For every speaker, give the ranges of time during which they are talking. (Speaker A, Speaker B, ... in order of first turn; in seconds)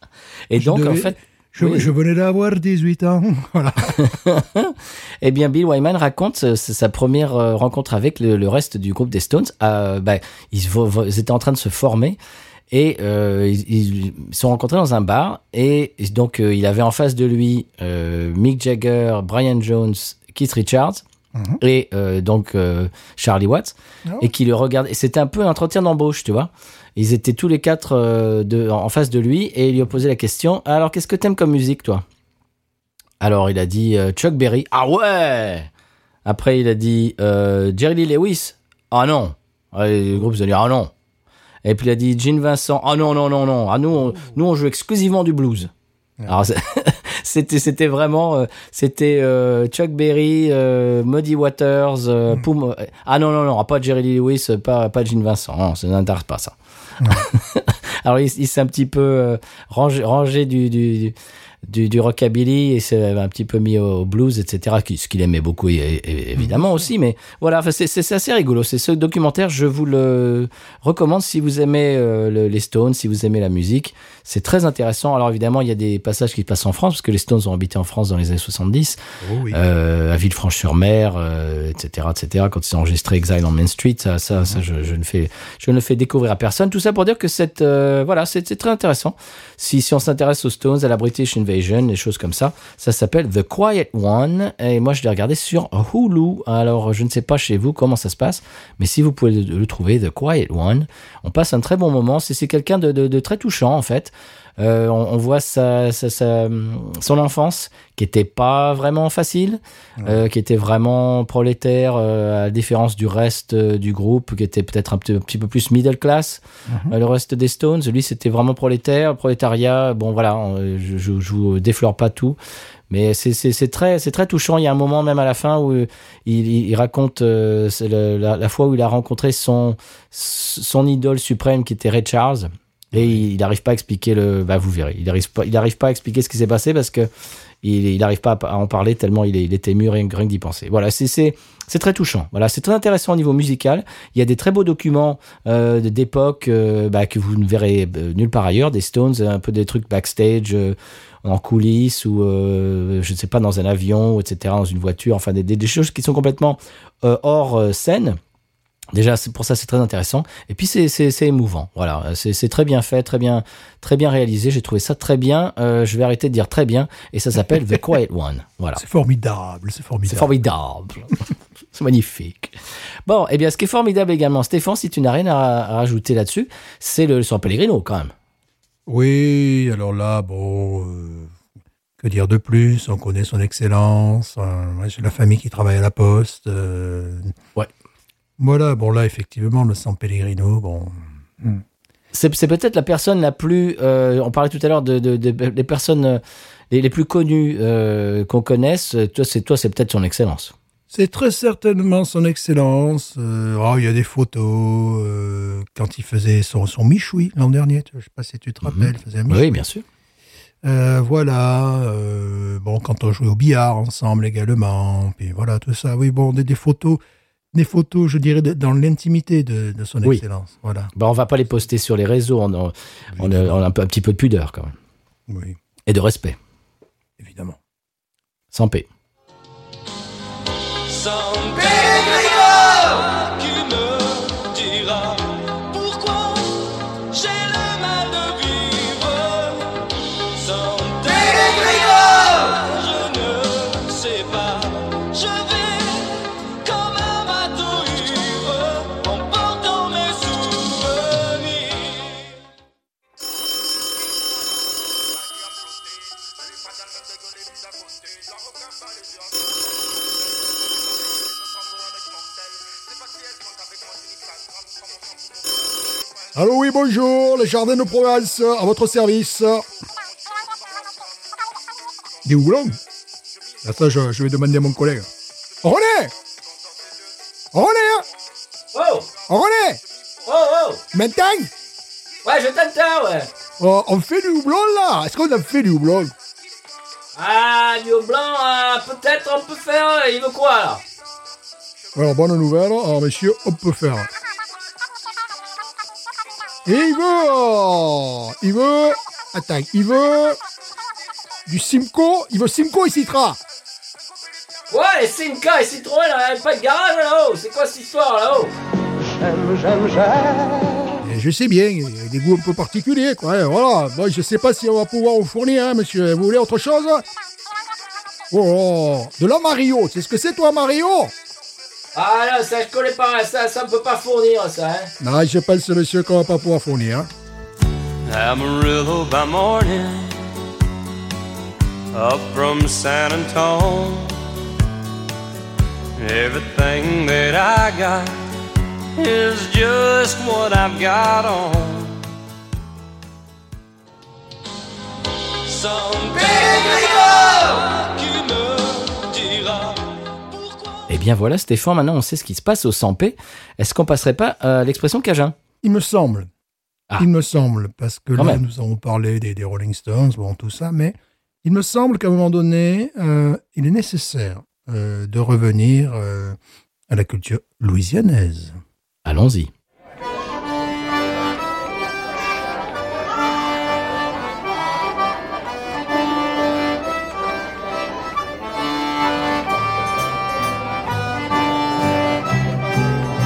Speaker A: 0.5-1.9, 3.9-12.2, 12.7-21.0, 21.6-32.0, 33.2-35.7, 36.2-40.9, 41.6-45.7, 46.3-56.5, 57.1-61.1, 61.7-79.0, 79.5-122.4, 122.9-137.1, 137.6-158.2, 158.9-168.8, 170.1-171.2, 171.7-178.1, 192.1-200.5, 208.6-209.8, 220.9-224.8, 225.9-226.4, 228.5-228.9, 278.7-279.1, 280.3-280.8, 282.2-283.3, 287.2-290.8, 304.7-308.5, 321.9-324.9, 350.9-355.4, 358.2-358.4, 369.1-369.5
Speaker B: 0.6-4.0, 21.4-21.6, 57.0-57.3, 66.4-66.9, 79.2-79.6, 116.7-116.9, 132.9-133.2, 168.8-170.4, 178.9-181.3, 182.0-187.3, 188.4-191.6, 200.9-209.6, 210.6-217.0, 217.5-220.9, 223.1-223.5, 225.3-225.6, 227.2-227.6, 266.3-269.7, 272.2-272.8, 273.6-275.1, 275.6-276.1, 277.5-278.1, 279.3-279.8, 280.9-281.5, 283.6-286.1, 291.9-294.1, 296.6-300.4, 301.5-303.4, 311.0-317.1, 318.3-321.1, 325.0-327.1, 355.6-356.3, 357.0-366.4, 366.9-368.6
Speaker C: 230.8-252.4, 309.6-310.1, 328.1-330.3, 331.9-334.2, 336.0-338.2, 339.0-342.1, 345.4-350.9